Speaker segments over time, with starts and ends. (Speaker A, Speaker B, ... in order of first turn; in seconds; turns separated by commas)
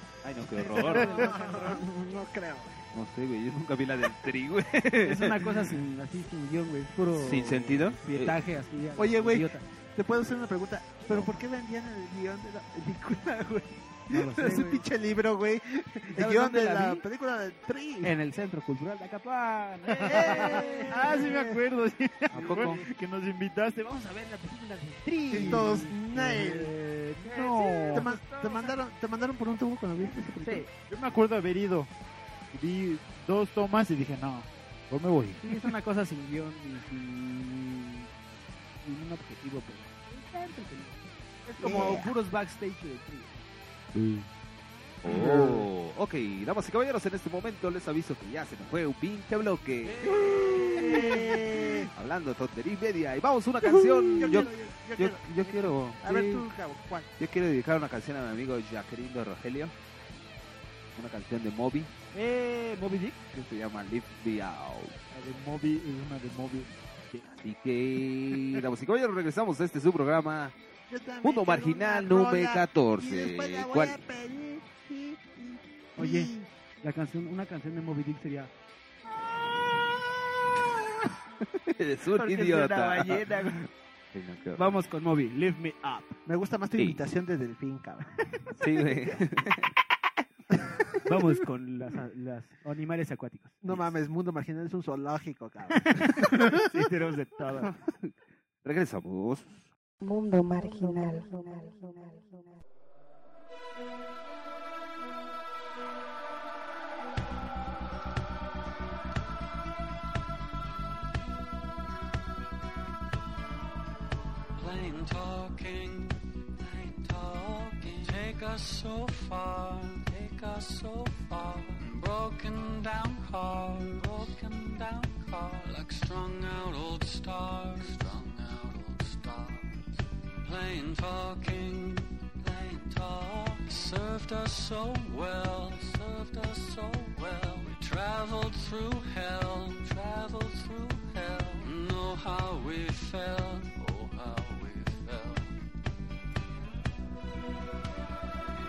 Speaker A: 0.2-1.3, Speaker B: 0.5-2.8, Speaker C: 0.8-1.8, Speaker A: 2.9-5.5, Speaker C: 5.0-9.7, Speaker A: 7.2-8.4, Speaker B: 8.9-18.1, Speaker C: 14.1-14.8, Speaker C: 16.1-17.0, Speaker C: 18.0-21.3, Speaker B: 19.9-21.6, Speaker D: 20.0-28.1, Speaker C: 22.3-22.9, Speaker A: 22.3-22.8, Speaker C: 24.8-28.8, Speaker B: 25.3-26.7, Speaker B: 27.9-30.7, Speaker C: 30.4-30.7, Speaker D: 30.7-31.9, Speaker D: 32.5-35.5, Speaker C: 35.4-38.1, Speaker C: 38.8-43.4, Speaker B: 41.6-42.1, Speaker D: 43.9-44.3, Speaker A: 45.0-50.5, Speaker D: 45.1-45.6, Speaker C: 49.8-51.4, Speaker B: 50.3-51.9, Speaker A: 51.9-56.0, Speaker B: 54.2-57.1, Speaker C: 54.2-54.5, Speaker C: 56.0-56.4, Speaker A: 57.2-59.7, Speaker A: 61.0-61.9, Speaker C: 62.1-63.2, Speaker A: 63.3-64.9, Speaker D: 65.1-67.2, Speaker A: 67.3-70.5, Speaker B: 70.9-76.5, Speaker A: 71.2-74.0, Speaker C: 76.0-78.5, Speaker A: 81.7-84.8, Speaker C: 82.1-83.6, Speaker C: 84.5-86.2, Speaker B: 86.2-88.1, Speaker A: 88.5-89.7, Speaker C: 91.0-93.6, Speaker B: 93.6-96.5, Speaker C: 95.7-97.7, Speaker A: 97.7-98.1, Speaker A: 98.6-99.7, Speaker E: 100.0-102.4, Speaker F: 114.6-145.6